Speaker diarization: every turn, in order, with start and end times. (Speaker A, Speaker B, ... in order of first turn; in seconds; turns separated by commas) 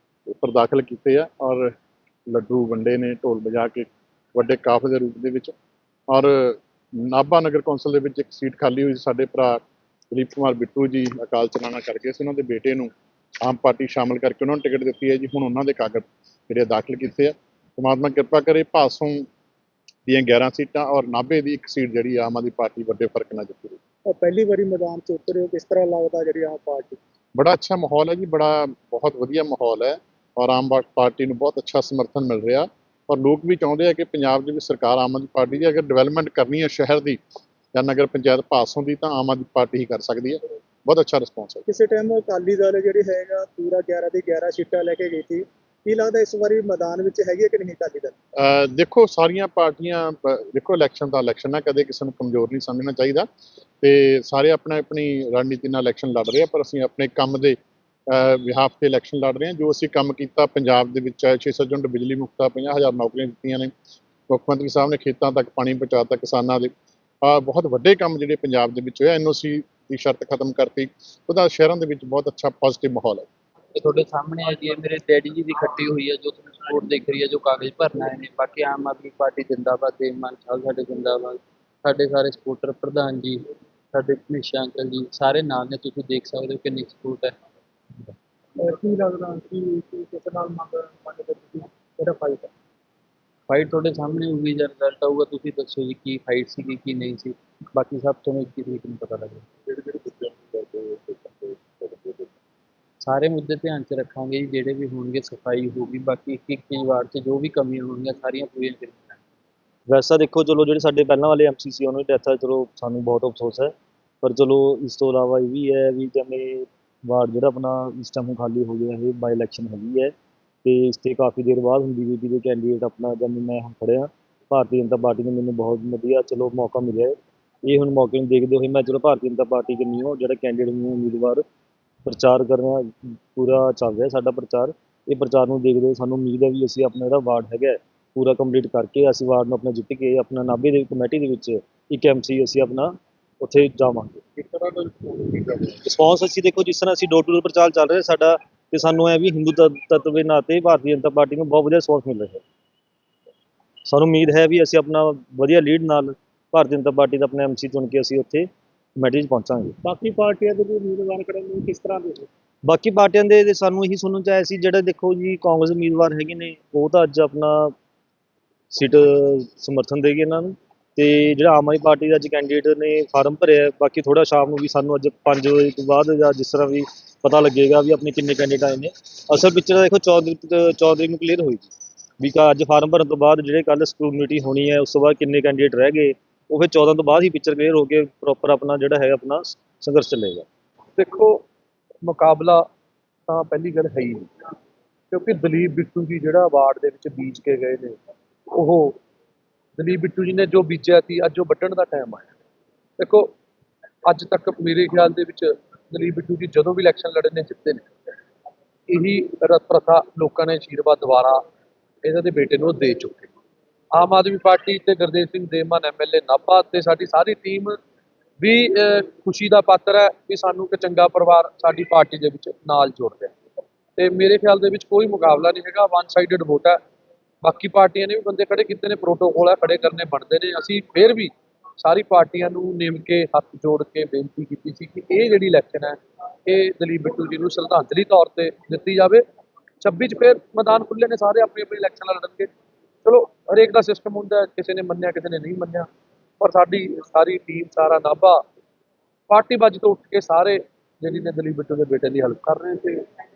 Speaker A: 0.3-1.7, Speaker A: 2.3-5.5, Speaker A: 6.1-12.9, Speaker A: 13.4-19.3, Speaker A: 20.1-23.8, Speaker B: 24.1-27.0, Speaker A: 27.3-37.2, Speaker A: 37.7-41.6, Speaker B: 41.7-48.1, Speaker A: 48.4-53.3, Speaker A: 53.8-57.6, Speaker A: 58.1-63.7, Speaker A: 64.3-66.7, Speaker A: 67.2-73.2, Speaker C: 73.8-81.3, Speaker C: 81.9-83.3, Speaker C: 84.2-87.3, Speaker B: 88.6-92.5, Speaker C: 93.5-99.4, Speaker C: 103.1-109.1, Speaker D: 109.9-131.4, Speaker D: 132.1-152.4, Speaker D: 153.8-159.7, Speaker B: 159.8-162.3, Speaker D: 162.6-167.7, Speaker D: 168.7-190.4, Speaker E: 190.9-191.4, Speaker E: 192.0-192.7, Speaker E: 193.3-194.3, Speaker E: 195.1-198.0, Speaker E: 198.5-199.0, Speaker E: 199.8-202.3, Speaker E: 203.0-203.3, Speaker E: 204.1-207.9, Speaker E: 208.9-211.4, Speaker E: 212.0-213.3, Speaker E: 213.9-217.8, Speaker E: 218.4-223.3, Speaker E: 224.0-226.8, Speaker E: 227.4-239.2, Speaker E: 239.8-242.5, Speaker E: 243.0-245.9, Speaker E: 246.4-248.4, Speaker E: 249.3-253.1